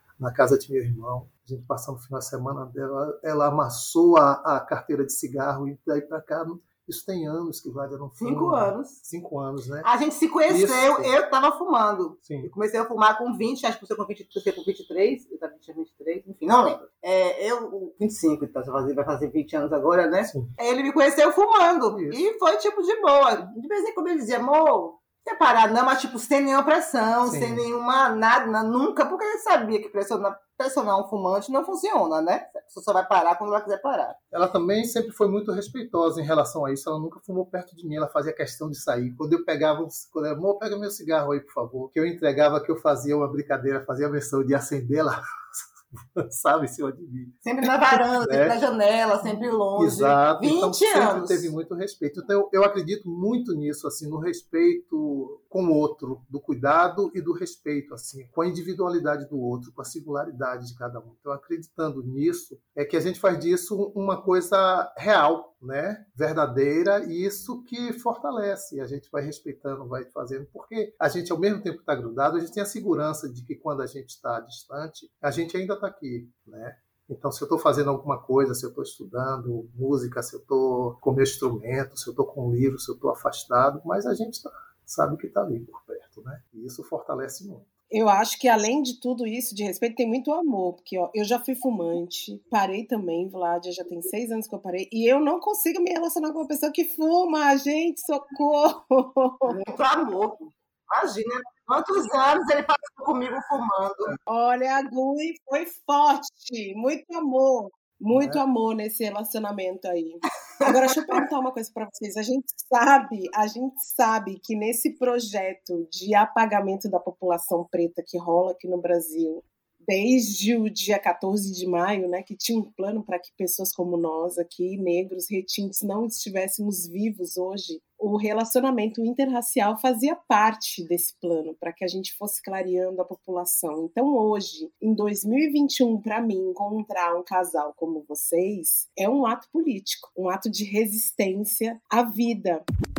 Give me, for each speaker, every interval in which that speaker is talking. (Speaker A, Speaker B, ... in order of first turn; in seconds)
Speaker A: 0.2-9.9, 10.5-11.1, 12.2-12.5, 21.9-22.2, 27.2-27.6, 34.3-48.6, 49.8-87.7, 108.1-108.4
Speaker B: 8.2-9.0, 9.8-34.2, 47.4-51.5, 99.5-104.1
Speaker C: 87.9-99.5, 104.3-142.6